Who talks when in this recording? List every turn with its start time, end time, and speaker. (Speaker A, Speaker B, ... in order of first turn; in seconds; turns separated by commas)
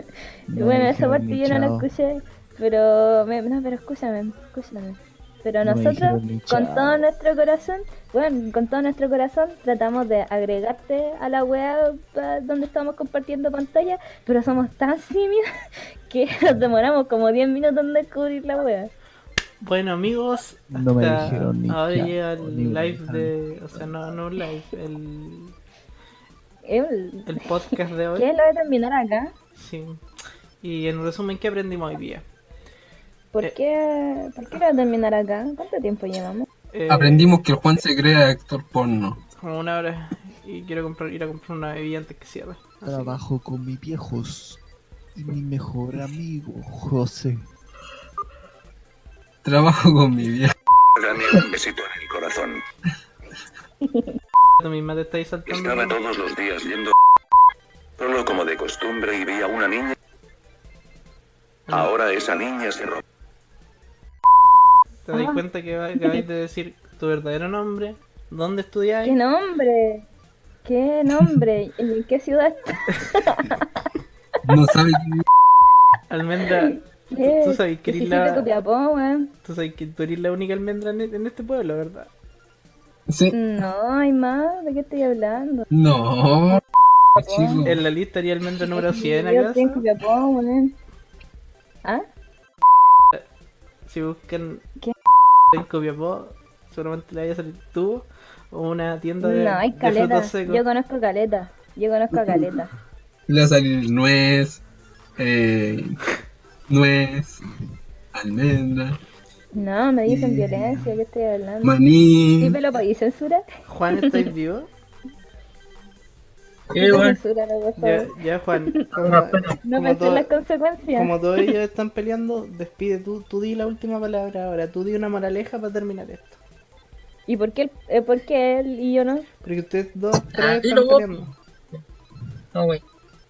Speaker A: 0.5-1.9, Speaker B: 0.5-15.4, Speaker A: 5.6-7.0, Speaker B: 16.1-18.9, Speaker C: 19.6-25.5, Speaker A: 20.7-24.0, Speaker B: 26.6-29.3, Speaker C: 27.3-28.3, Speaker C: 29.6-30.0, Speaker C: 30.6-32.2, Speaker B: 33.3-36.5, Speaker C: 36.7-37.4, Speaker D: 36.9-39.2, Speaker C: 39.4-43.2, Speaker A: 42.8-44.6, Speaker A: 45.1-47.5, Speaker D: 49.4-50.5, Speaker E: 51.0-52.6, Speaker C: 54.6-56.0, Speaker E: 55.5-56.9, Speaker E: 58.0-59.9, Speaker E: 61.7-63.0, Speaker C: 65.1-69.2, Speaker B: 65.1-65.4, Speaker B: 69.0-70.0, Speaker B: 70.6-73.6, Speaker D: 74.4-75.2, Speaker C: 76.1-78.5, Speaker B: 76.6-79.3, Speaker C: 79.4-82.1, Speaker D: 83.1-83.3, Speaker B: 83.3-85.7, Speaker D: 85.7-87.8, Speaker B: 87.2-87.7, Speaker C: 87.7-89.8, Speaker B: 88.7-90.8, Speaker C: 93.8-94.6, Speaker C: 95.5-100.6, Speaker B: 99.2-102.7, Speaker D: 103.3-104.6, Speaker D: 105.2-106.0, Speaker D: 106.7-107.4, Speaker D: 108.1-109.0, Speaker B: 109.5-111.8, Speaker D: 110.1-110.8, Speaker D: 111.6-112.6, Speaker B: 112.4-113.4, Speaker C: 113.7-114.7, Speaker B: 114.0-114.3, Speaker F: 116.7-117.2, Speaker B: 116.8-118.1, Speaker C: 117.8-120.3, Speaker F: 118.9-119.6, Speaker B: 119.6-121.5, Speaker C: 120.9-126.4, Speaker B: 127.3-129.2, Speaker C: 129.4-131.3, Speaker F: 130.3-131.8, Speaker F: 132.5-132.8